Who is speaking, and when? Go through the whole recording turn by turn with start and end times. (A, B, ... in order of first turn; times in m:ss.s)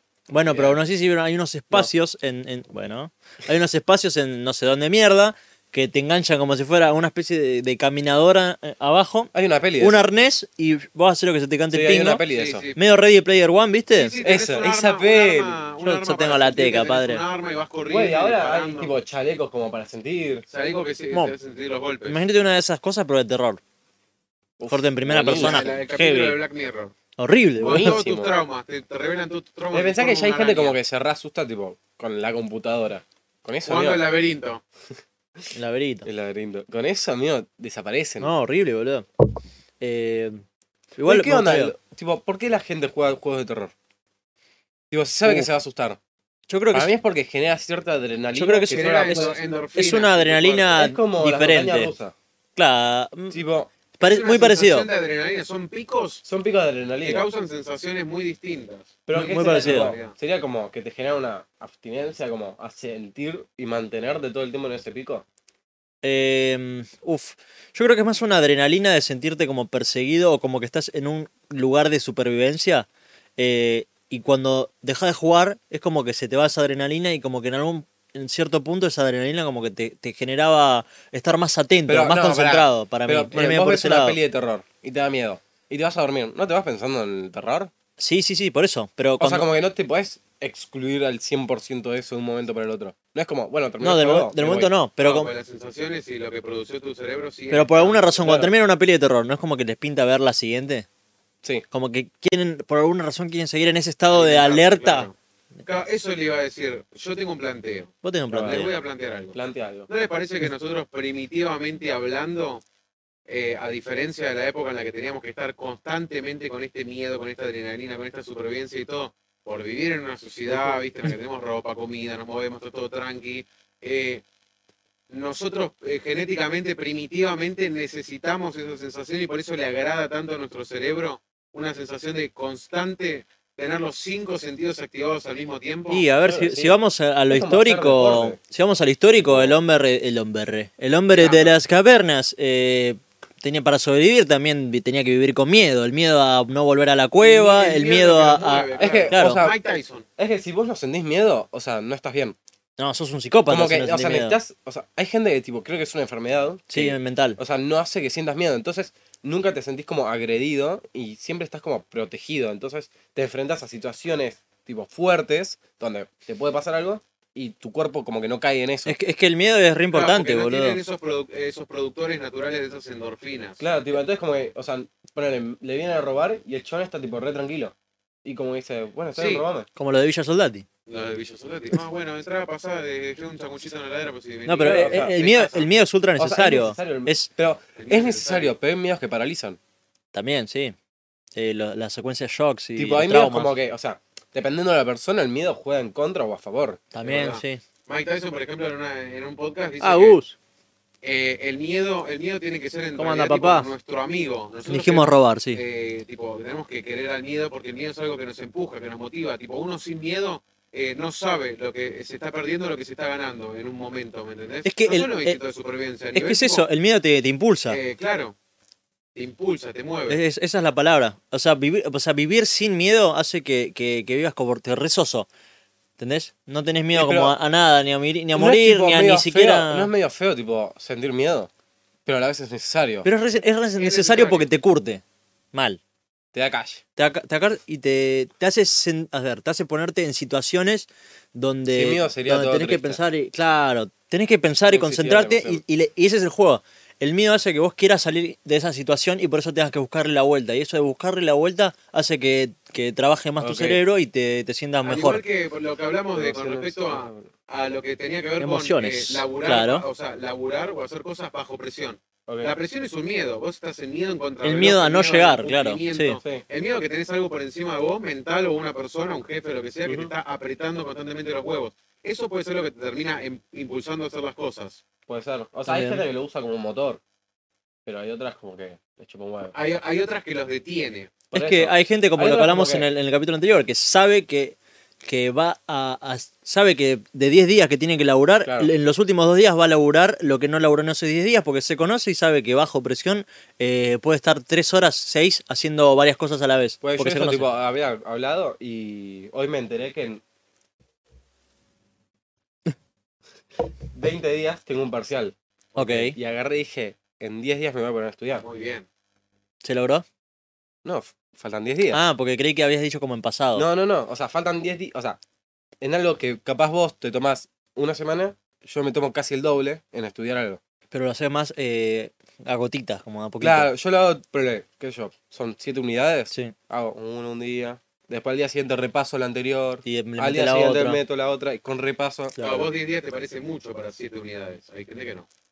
0:00.3-0:12.2 A
0:00.5-0:00.8 B
0:09.3-0:10.0 B
0:11.7-0:12.7 B
0:12.3-0:12.8 C
0:12.8-0:14.1 A
0:13.9-0:18.9 C
0:14.2-0:15.6 B
0:15.8-0:17.2 A
0:17.9-0:20.4 B
0:20.5-0:22.2 C
0:22.1-0:23.6 A
0:24.6-0:25.7 B
0:24.7-0:26.4 A
0:25.2-0:26.9 C
0:27.2-0:28.0 A
0:27.6-0:30.8 C
0:27.6-0:28.3 B
0:29.7-0:34.0 B
0:33.7-0:34.6 C
0:35.5-0:36.1 A
0:36.0-0:38.3 B
0:38.2-0:39.1 A
0:39.8-0:40.4 A
0:41.0-0:41.7 A
0:41.0-0:43.7 B
0:44.9-0:46.0 B
0:46.5-0:46.9 A
0:46.7-0:49.4 B
0:48.3-0:49.2 A
0:48.7-0:50.8 C
0:49.8-0:51.9 A
0:50.8-0:52.1 B
0:52.6-0:53.4 A
0:53.3-0:53.7 B
0:54.0-0:54.9 A
0:54.0-0:56.2 C
0:56.2-0:57.3 B
0:57.0-1:00.1 C
0:59.1-1:05.2 B
0:59.1-1:00.0 A
1:06.0-1:24.2 A
1:21.9-1:27.7 B
1:28.0-1:29.5 A
1:29.2-1:34.7 B
1:33.8-1:35.3 A
1:35.0-1:38.2 C
1:37.5-1:40.9 A
1:38.2-1:38.5 B
1:41.7-1:45.1 A
1:44.1-1:45.1 C
1:45.6-1:49.4 C
1:48.0-1:48.7 A
1:48.3-1:48.7 B
1:49.3-1:49.9 B
1:49.9-1:52.6 C
1:53.3-2:04.2 C
2:00.5-2:00.8 B
2:05.1-2:16.1 C
2:15.9-2:29.5 A
2:16.2-2:18.4 B
2:19.2-2:19.6 B
2:21.2-2:21.5 C
2:27.2-2:30.1 C
2:28.8-2:29.6 B
2:30.2-2:32.4 B
2:32.8-2:34.4 A
2:33.5-2:49.0 B
2:36.7-2:37.4 A
2:48.9-2:50.8 A
2:49.9-2:53.6 C
2:53.6-2:59.7 B
2:59.2-2:59.4 C
2:59.8-3:00.6 A
3:00.9-3:05.7 C
3:04.5-3:07.3 A
3:04.6-3:05.2 B
3:06.2-3:09.6 B
3:07.8-3:08.6 C
3:10.1-3:10.8 A
3:11.4-3:13.6 A
3:12.8-3:16.9 B
3:16.9-3:17.6 A
3:17.0-3:20.2 C
3:19.8-3:20.4 A
3:21.0-3:36.6 C
3:23.0-3:23.7 A
3:24.7-3:25.6 A
3:34.6-3:35.4 A
3:36.1-3:37.8 A
3:37.7-3:38.4 C
3:39.2-3:40.2 C
3:40.1-3:45.3 A
3:46.0-3:49.9 A
3:46.9-3:47.3 B
3:48.4-3:51.5 B
3:52.1-3:53.1 B
3:53.0-3:55.0 A
3:53.8-3:54.5 C
3:55.5-3:55.8 A
3:56.3-3:56.8 B
3:57.0-4:15.2 A
4:01.7-4:03.0 B
4:04.7-4:05.6 B
4:13.4-4:13.8 B
4:14.8-4:34.8 C
4:16.1-4:17.3 B
4:18.4-4:19.9 A
4:22.3-4:22.6 B
4:24.4-4:26.2 A
4:29.8-4:30.1 B
4:35.1-4:37.0 B
4:35.7-4:36.0 A
4:37.9-4:39.5 B
4:39.5-4:41.2 C
4:41.3-4:42.9 B
4:41.3-4:57.5 A
4:48.4-4:48.7 B
4:56.8-5:00.2 B
5:03.9-5:08.4 B
5:05.8-5:06.2 A
5:08.4-5:08.9 C
5:09.6-5:10.0 A
5:10.8-5:12.0 B
5:11.9-5:13.7 A
5:13.6-5:15.2 B
5:15.8-5:20.6 B
5:20.9-5:23.7 A
5:23.4-5:32.6 B
5:29.8-5:31.0 A
5:32.4-5:32.6 A
5:32.4-5:35.3 C